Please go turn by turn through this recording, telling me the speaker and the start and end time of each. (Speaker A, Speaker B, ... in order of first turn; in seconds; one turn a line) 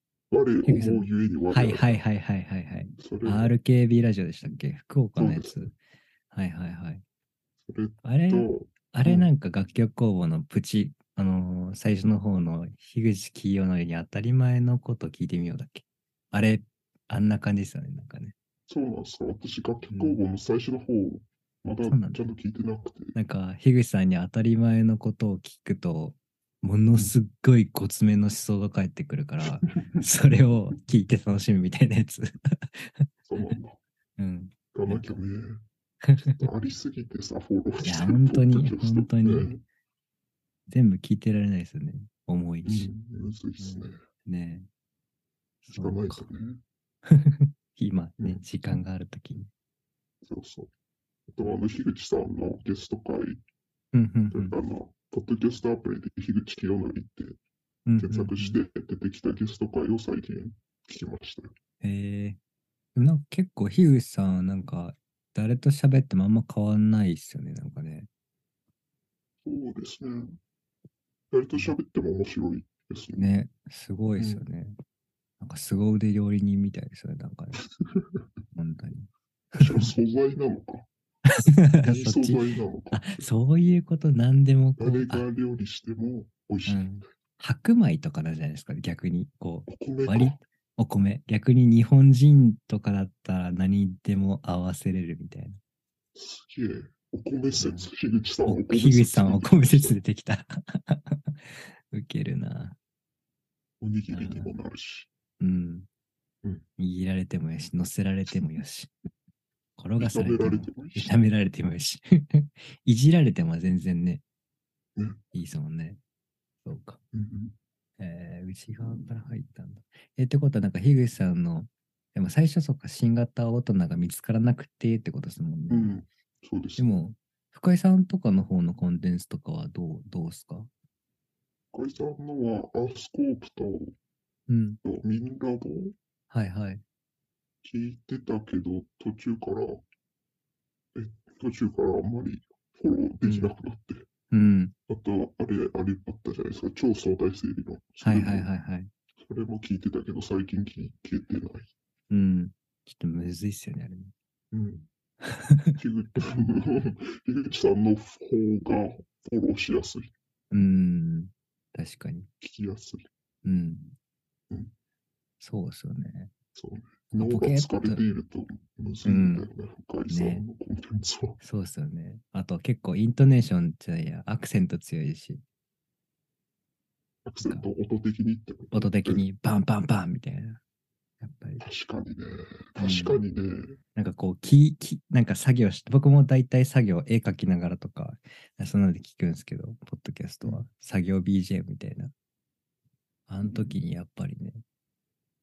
Speaker A: 0.3-2.0
Speaker B: 0.7-5.7
Speaker A: 3.0-3.5
Speaker A: 5.2-5.7
Speaker B: 6.3-7.0
Speaker A: 7.6-9.3
Speaker B: 8.0-18.3
Speaker A: 18.7-23.1
Speaker B: 19.9-20.2
Speaker B: 21.8-22.3
Speaker B: 23.1-33.1
Speaker A: 33.3-33.8
Speaker B: 34.2-35.1
Speaker A: 34.7-35.6
Speaker B: 36.0-36.4
Speaker A: 36.4-39.6
Speaker B: 37.8-39.5
Speaker B: 40.7-42.9
Speaker A: 42.6-44.0
Speaker B: 43.6-44.7
Speaker B: 45.6-46.2
Speaker A: 45.7-46.6
Speaker B: 47.0-49.5
Speaker A: 50.2-50.7
Speaker A: 51.3-53.4
Speaker B: 53.9-54.5
Speaker A: 54.3-57.4
Speaker B: 57.9-58.6
Speaker A: 58.0-61.5
Speaker B: 61.8-62.4
Speaker B: 63.0-68.1
Speaker A: 69.4-70.4
Speaker A: 71.3-73.3
Speaker B: 73.1-74.7
Speaker A: 74.2-74.4
Speaker B: 75.4-77.6
Speaker A: 77.8-78.2
Speaker B: 78.5-79.1
Speaker A: 79.5-80.9
Speaker B: 79.6-79.9
Speaker B: 81.2-82.4
Speaker A: 81.8-83.3
Speaker B: 82.9-85.2
Speaker A: 84.8-87.0
Speaker B: 86.7-95.6
Speaker A: 89.7-90.4
Speaker A: 96.1-100.0
Speaker B: 97.6-97.9
Speaker B: 98.4-102.8
Speaker A: 103.8-105.1
Speaker B: 104.1-104.5
Speaker B: 105.4-105.9
Speaker B: 106.8-108.9
Speaker B: 109.8-114.2
Speaker A: 110.0-111.1
Speaker B: 115.3-116.0
Speaker B: 116.6-117.0
Speaker A: 117.1-117.5
Speaker B: 118.0-125.9
Speaker A: 125.7-127.0
Speaker B: 126.8-130.7
Speaker A: 131.7-133.9
Speaker B: 134.5-134.8
Speaker A: 134.8-135.9
Speaker B: 136.3-136.8
Speaker A: 137.6-139.8
Speaker A: 140.9-144.0
Speaker B: 143.2-143.5
Speaker B: 144.3-144.7
Speaker A: 144.9-148.5
Speaker B: 148.0-148.9
Speaker A: 149.2-151.7
Speaker B: 152.1-154.1
Speaker A: 154.5-154.9
Speaker B: 155.2-155.8
Speaker A: 155.8-160.1
Speaker B: 160.5-162.3
Speaker A: 162.4-163.0
Speaker B: 163.4-163.9
Speaker B: 165.4-166.3
Speaker A: 166.5-171.4
Speaker B: 167.1-168.0
Speaker B: 169.0-169.5
Speaker B: 170.1-170.4
Speaker B: 171.4-175.4
Speaker A: 177.2-179.2
Speaker B: 178.7-180.6
Speaker B: 181.2-181.6
Speaker A: 181.6-183.8
Speaker B: 182.8-183.2
Speaker B: 183.9-192.1
Speaker B: 193.3-194.6